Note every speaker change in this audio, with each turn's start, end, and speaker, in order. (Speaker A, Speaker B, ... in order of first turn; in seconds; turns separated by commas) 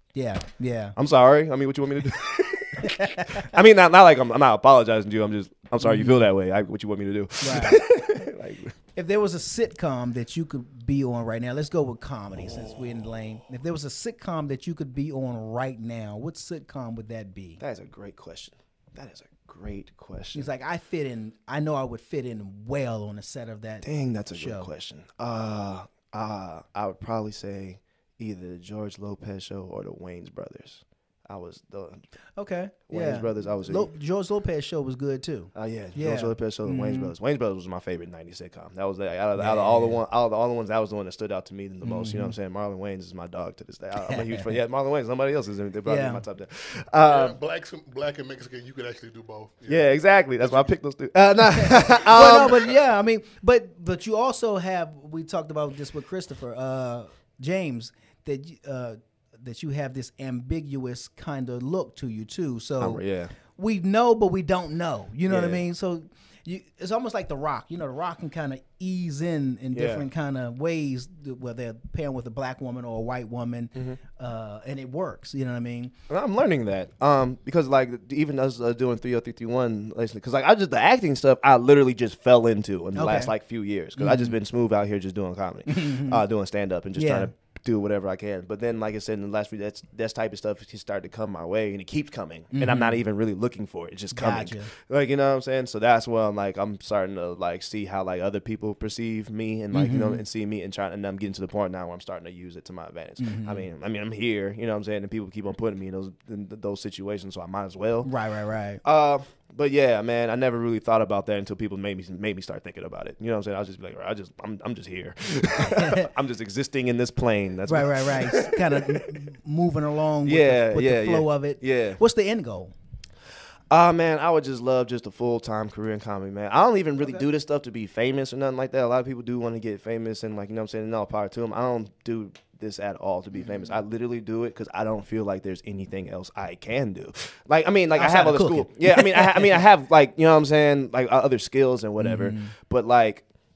Speaker A: 0.1-1.0, Speaker B: 1.0-8.7, Speaker A: 2.8-3.4, Speaker A: 5.8-6.3, Speaker A: 7.4-7.8, Speaker A: 8.9-17.6, Speaker B: 17.6-20.5, Speaker A: 20.3-24.7, Speaker B: 23.8-32.1, Speaker A: 32.4-37.1, Speaker B: 32.9-33.9, Speaker B: 35.5-47.4, Speaker A: 39.4-40.0, Speaker A: 41.8-42.4, Speaker A: 44.0-44.6, Speaker A: 45.9-46.2, Speaker C: 47.0-50.7, Speaker B: 49.7-52.7, Speaker A: 51.6-75.9, Speaker B: 62.8-63.3, Speaker B: 65.3-65.6, Speaker B: 69.7-70.1, Speaker B: 73.8-74.0, Speaker B: 76.1-108.1, Speaker A: 83.0-83.3, Speaker A: 84.0-84.4, Speaker A: 85.7-86.2, Speaker A: 87.0-87.3, Speaker A: 92.5-93.0, Speaker A: 94.1-94.7, Speaker A: 99.7-100.2, Speaker A: 103.2-103.7, Speaker A: 108.0-108.8, Speaker B: 108.8-119.0, Speaker A: 115.6-116.1, Speaker A: 117.7-122.7, Speaker B: 120.2-122.0, Speaker B: 123.7-143.3, Speaker A: 137.9-139.6, Speaker A: 142.0-142.6